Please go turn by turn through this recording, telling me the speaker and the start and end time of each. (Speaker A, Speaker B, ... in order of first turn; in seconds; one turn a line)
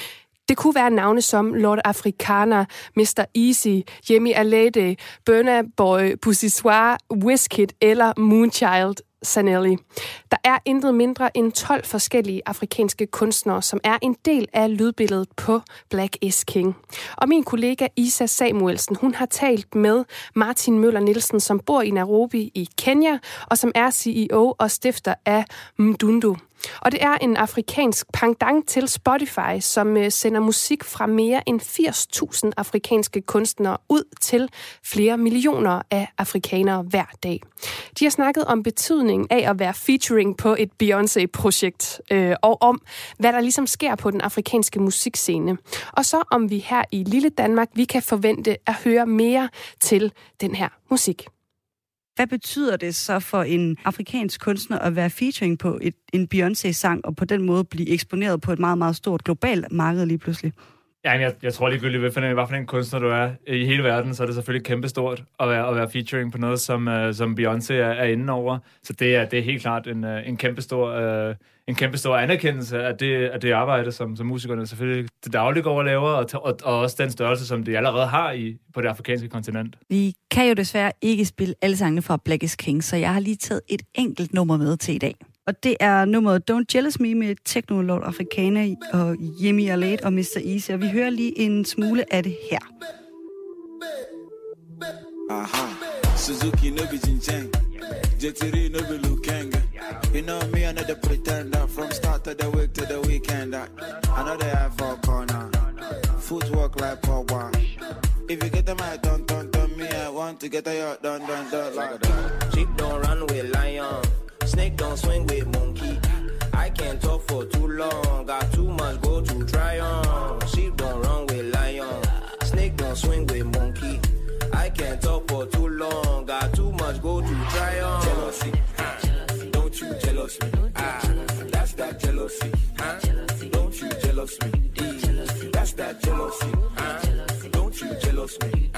Speaker A: 0.5-51.3
Speaker B: 52.2-60.5
Speaker C: 61.0-79.8
Speaker B: 79.9-92.7
Speaker D: 95.3-97.5
Speaker D: 98.2-105.6
Speaker D: 106.2-107.6
Speaker D: 108.3-112.1
Speaker E: 112.4-128.4
Speaker E: 129.5-130.5
Speaker E: 131.5-132.5
Speaker E: 133.4-135.1
Speaker E: 135.7-136.1